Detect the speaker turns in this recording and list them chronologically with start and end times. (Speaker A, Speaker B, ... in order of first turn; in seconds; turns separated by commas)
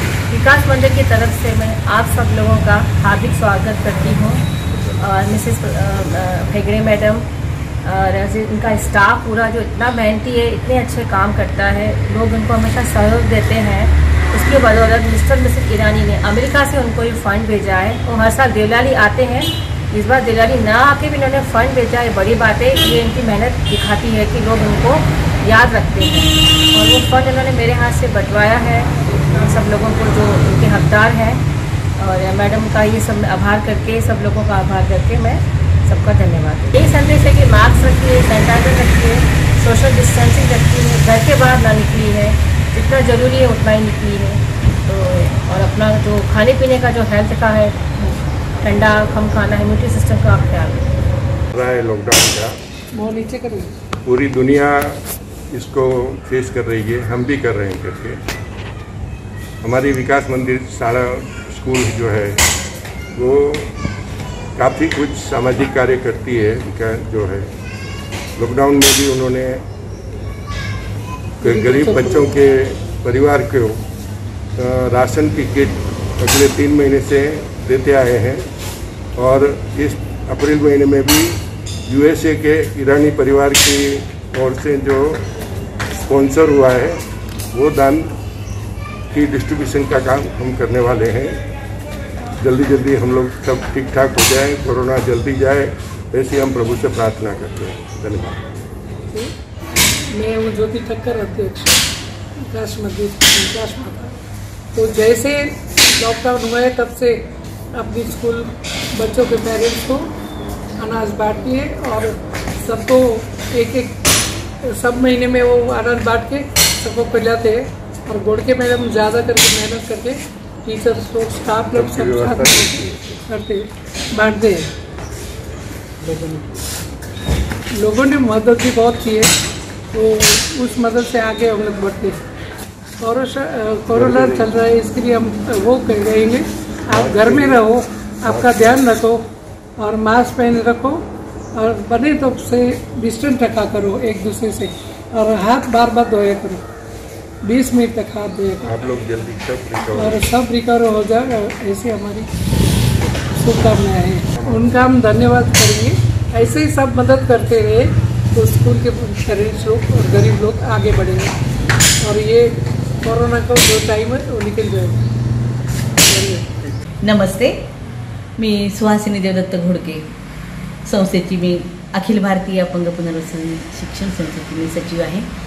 Speaker A: 0.3-4.4, Speaker A: 5.0-7.3, Speaker A: 7.8-31.4, Speaker A: 32.0-50.9, Speaker B: 51.5-52.5, Speaker C: 52.9-53.7, Speaker B: 54.0-54.8, Speaker B: 55.5-58.2, Speaker B: 59.6-62.4, Speaker B: 63.2-63.7, Speaker B: 64.6-67.5, Speaker B: 68.4-69.6, Speaker C: 71.4-72.3, Speaker B: 71.4-73.8, Speaker B: 74.6-78.4, Speaker B: 79.2-81.3, Speaker B: 81.9-85.2, Speaker B: 86.1-87.0, Speaker B: 87.5-88.1, Speaker B: 89.1-91.4, Speaker B: 92.4-98.4, Speaker C: 100.1-101.8, Speaker C: 102.4-104.1, Speaker C: 104.8-107.2, Speaker C: 107.8-110.1, Speaker C: 110.8-114.0, Speaker C: 114.7-124.7, Speaker B: 121.7-123.2, Speaker C: 126.0-126.5, Speaker C: 127.8-129.3, Speaker C: 129.9-132.2, Speaker C: 133.0-139.2, Speaker B: 133.9-134.5, Speaker B: 136.9-137.6, Speaker B: 138.3-138.8, Speaker C: 139.8-141.0, Speaker C: 141.6-146.6, Speaker C: 147.4-148.8, Speaker B: 148.7-150.3, Speaker C: 149.9-152.3, Speaker C: 153.3-161.3, Speaker B: 154.4-154.8, Speaker C: 162.0-165.0, Speaker C: 166.1-166.8, Speaker D: 167.0-167.6, Speaker D: 168.4-170.1, Speaker D: 170.8-175.3